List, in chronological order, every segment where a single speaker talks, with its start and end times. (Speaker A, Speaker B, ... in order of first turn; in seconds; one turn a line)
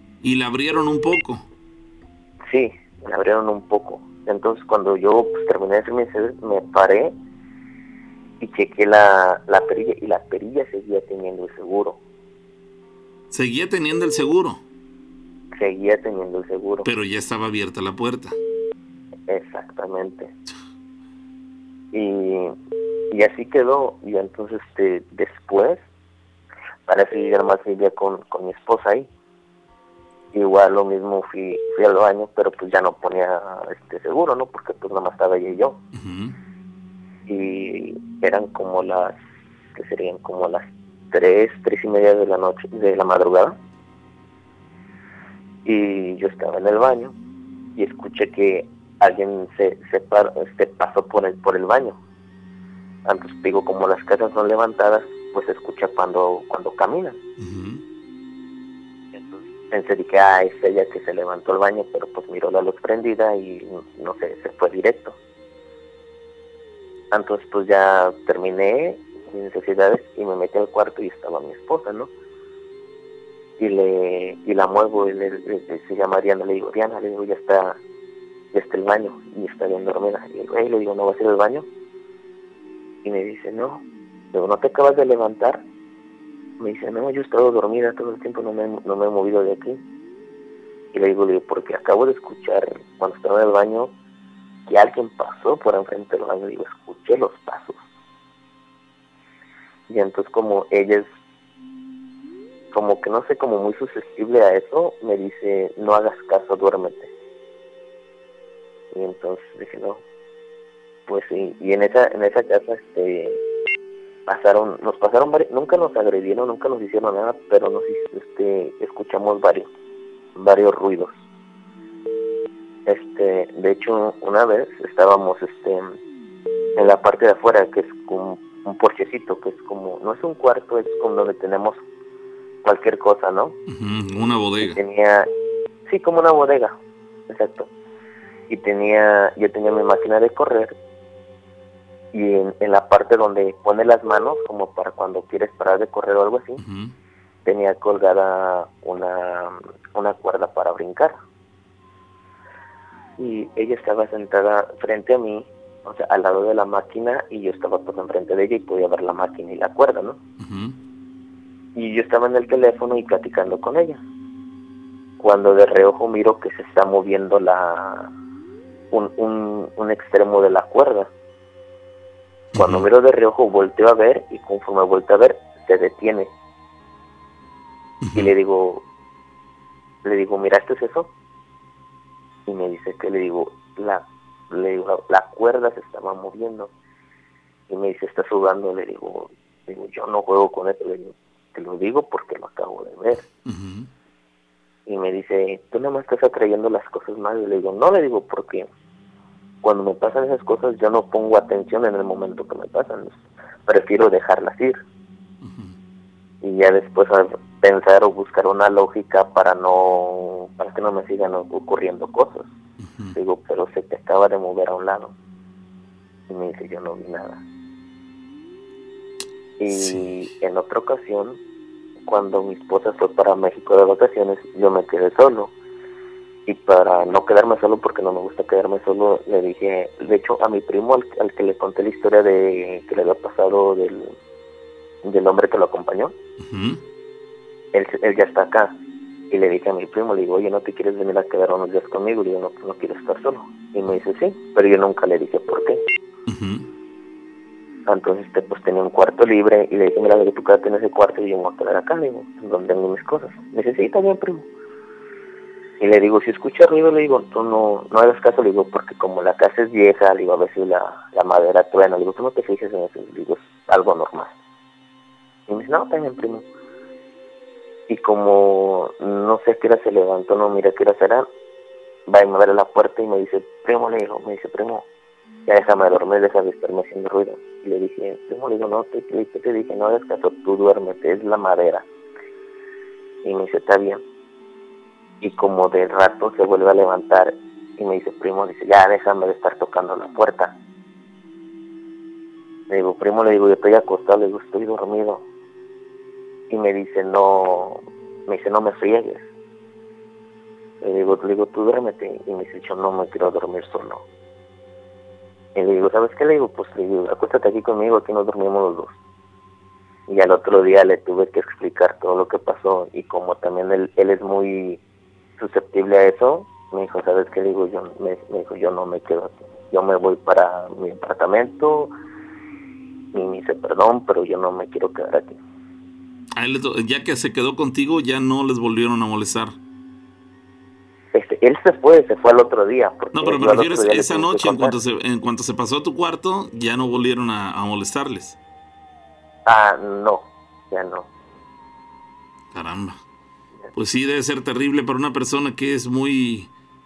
Speaker A: 0.2-1.4
Speaker B: 2.5-7.2
Speaker B: 8.4-12.0
Speaker A: 13.3-14.6
Speaker B: 15.6-16.9
Speaker A: 16.9-18.4
Speaker B: 19.3-20.3
Speaker B: 21.9-22.5
Speaker B: 23.1-25.8
Speaker B: 26.9-29.1
Speaker B: 30.3-35.8
Speaker A: 35.9-36.4
Speaker B: 37.3-39.2
Speaker B: 39.7-43.6
Speaker B: 45.6-47.1
Speaker B: 47.8-52.0
Speaker B: 53.0-57.2
Speaker A: 57.4-57.8
Speaker B: 59.1-65.2
Speaker B: 67.1-72.1
Speaker B: 73.6-77.8
Speaker B: 78.5-81.7
Speaker B: 83.0-83.8
Speaker B: 84.3-85.6
Speaker B: 86.6-89.8
Speaker B: 90.9-93.9
Speaker B: 94.7-97.8
Speaker B: 99.9-101.1
Speaker B: 102.7-107.1
Speaker B: 108.9-110.0
Speaker B: 111.1-113.4
Speaker B: 114.3-119.7
Speaker B: 120.4-121.2
Speaker B: 122.9-125.9
Speaker B: 126.8-131.8
Speaker B: 132.6-133.6
Speaker A: 133.7-134.8
Speaker B: 134.6-135.3
Speaker B: 135.9-136.8
Speaker B: 137.3-137.7
Speaker B: 138.5-140.8
Speaker B: 142.1-146.6
Speaker A: 146.6-146.9
Speaker B: 147.4-151.2
Speaker B: 153.2-160.2
Speaker A: 160.4-160.8
Speaker B: 161.8-164.0
Speaker B: 165.2-168.1
Speaker B: 168.9-171.1
Speaker A: 172.5-172.8
Speaker B: 172.6-176.3
Speaker A: 178.0-178.3
Speaker B: 178.1-178.8
Speaker B: 180.0-181.1
Speaker B: 182.5-186.7
Speaker B: 187.7-193.2
Speaker A: 193.4-193.9
Speaker B: 194.9-198.7
Speaker B: 199.6-203.2
Speaker B: 203.7-204.8
Speaker A: 205.4-205.8
Speaker B: 206.4-212.5
Speaker A: 212.8-213.2
Speaker B: 213.2-215.1
Speaker B: 216.3-217.4
Speaker B: 219.6-221.4
Speaker A: 219.7-220.3
Speaker B: 222.0-225.5
Speaker B: 226.5-234.1
Speaker B: 235.0-236.1
Speaker A: 236.4-236.8
Speaker B: 237.7-238.7
Speaker B: 239.3-245.8
Speaker A: 246.3-246.7
Speaker B: 247.9-254.5
Speaker B: 255.8-264.3
Speaker B: 265.5-266.4
Speaker B: 267.9-271.3
Speaker B: 272.1-274.9
Speaker B: 275.5-281.9
Speaker B: 283.2-284.0
Speaker B: 285.2-290.6
Speaker B: 292.7-295.2
Speaker B: 296.5-299.2
Speaker B: 300.8-304.0
Speaker B: 305.6-308.9
Speaker B: 310.1-314.8
Speaker B: 315.4-321.9
Speaker B: 323.1-325.4
Speaker A: 326.4-329.6
Speaker B: 331.1-334.8
Speaker A: 333.1-338.4
Speaker B: 339.5-341.1
Speaker A: 342.5-343.0
Speaker A: 343.8-346.5